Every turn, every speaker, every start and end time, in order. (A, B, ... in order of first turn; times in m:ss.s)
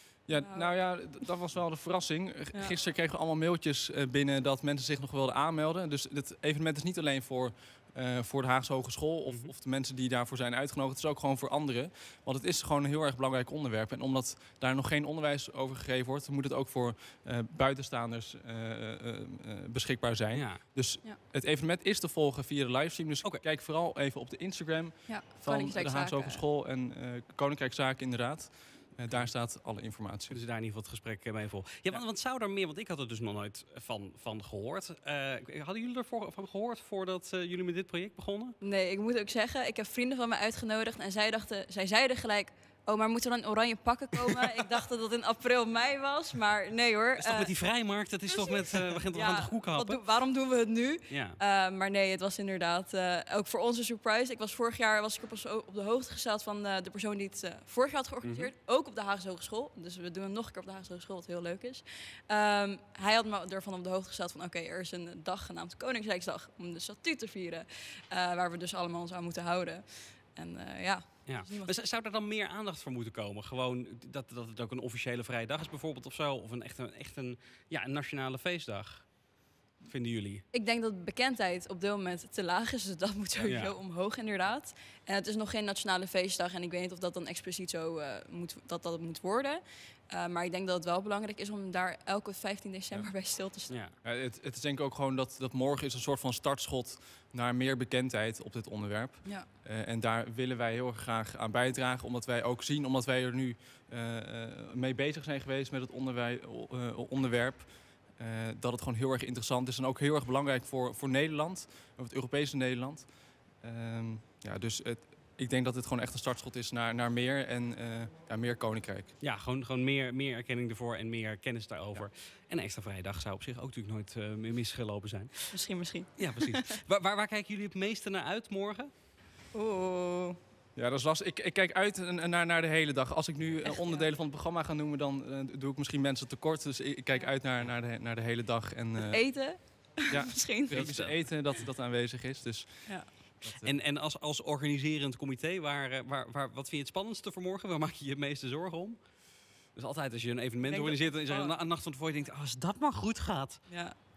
0:00.3-0:30.4 A
0:00.3-0:01.2 B
0:20.3-0:20.6 C
0:25.0-0:26.4 B
0:29.1-0:29.3 C
0:30.3-0:38.6 C
0:38.6-0:47.5 B
0:47.2-0:50.0 C
0:48.2-1:11.8 B
0:51.1-0:51.4 C
0:58.2-0:58.5 C
1:11.3-1:19.2 C
1:19.8-1:20.4 C
1:20.5-1:33.8 B
1:23.4-1:23.8 C
1:33.7-1:34.0 C
1:34.0-1:59.1 A
1:59.2-2:08.9 C
2:05.5-2:06.7 B
2:09.5-2:10.4 B
2:10.7-2:23.8 A
2:13.6-2:14.1 B
2:19.0-2:20.9 B
2:20.7-2:21.4 C
2:22.8-2:23.1 B
2:23.6-2:33.6 C
2:30.6-2:31.6 B
2:33.7-2:34.0 B